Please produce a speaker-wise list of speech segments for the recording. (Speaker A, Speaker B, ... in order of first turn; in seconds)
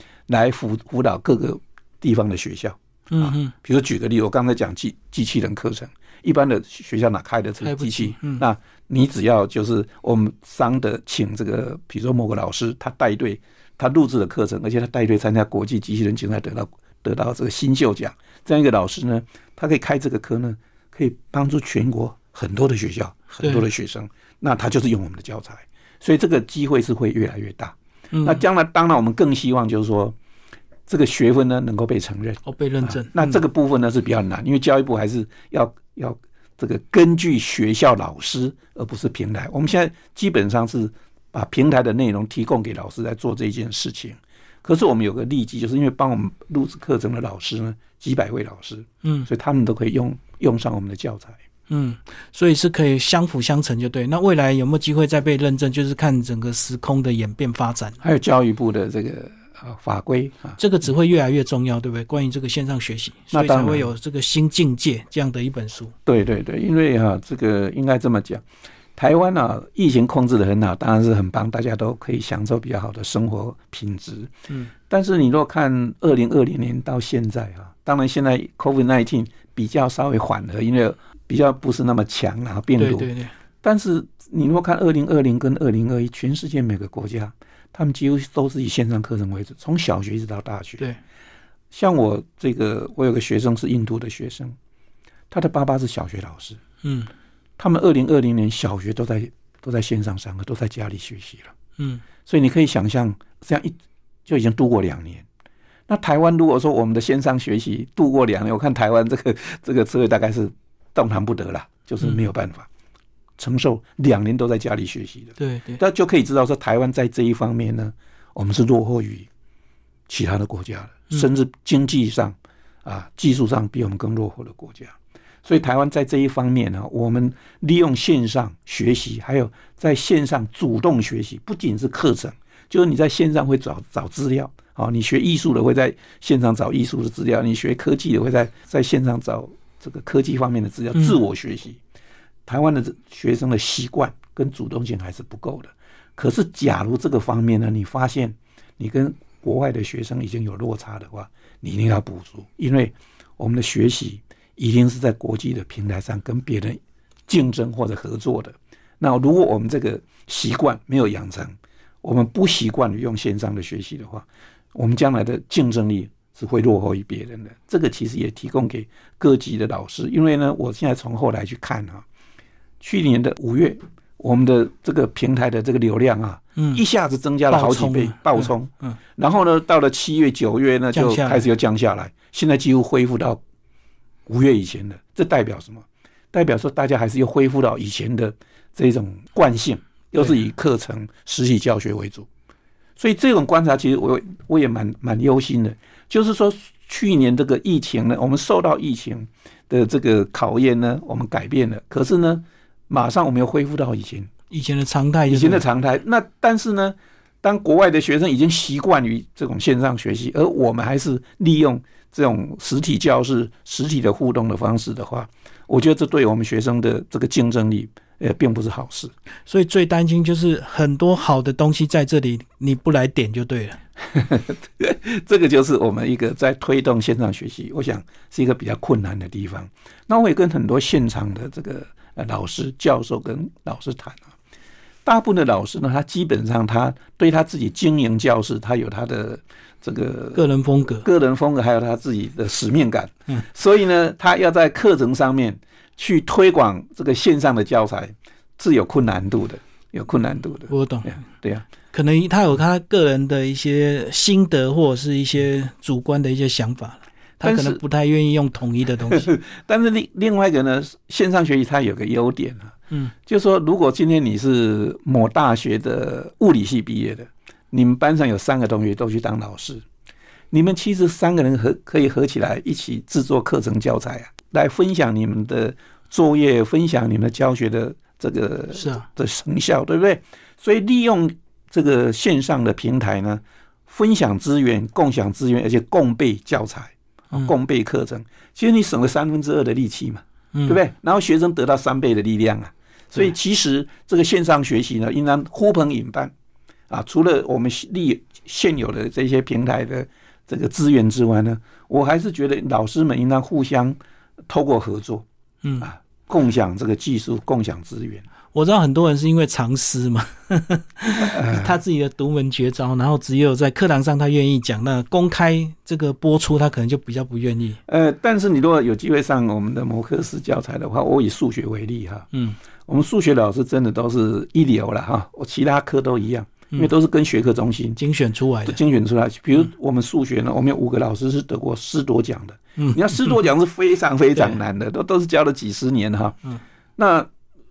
Speaker A: 0.3-30.1, 30.9-51.4, 58.0-60.6, 63.3-63.9, 66.0-68.4, 69.0-74.3, 74.9-83.1, 83.6-90.8, 91.7-94.5, 95.3-96.6, 97.6-101.5, 102.2-103.7, 104.2-105.2, 105.9-112.7, 113.4-119.3, 120.1-141.8, 142.4-172.0, 172.8-183.4, 184.2-192.3, 193.0-204.3, 205.3-219.1, 224.1-234.3, 235.0-240.4, 241.0-251.6, 257.4-257.8, 259.0-269.8, 270.5-296.3, 296.9-303.9, 304.5-305.2, 305.8-308.2, 311.2-311.8, 317.9-322.3, 322.9-328.0, 328.6-336.4, 337.0-337.3
Speaker B: 3.1-3.5, 7.6-8.4, 28.1-28.4, 32.4-33.4, 49.0-49.3, 51.7-58.0, 60.6-65.9, 82.8-83.3, 96.8-97.1, 101.8-102.0, 115.4-115.8, 176.6-176.8, 177.5-179.0, 180.9-181.4, 204.5-205.7, 219.5-223.8, 240.3-241.1, 250.7-251.2, 251.9-259.3, 278.7-279.1, 290.5-290.8, 308.5-317.8, 328.0-328.8, 332.8-333.1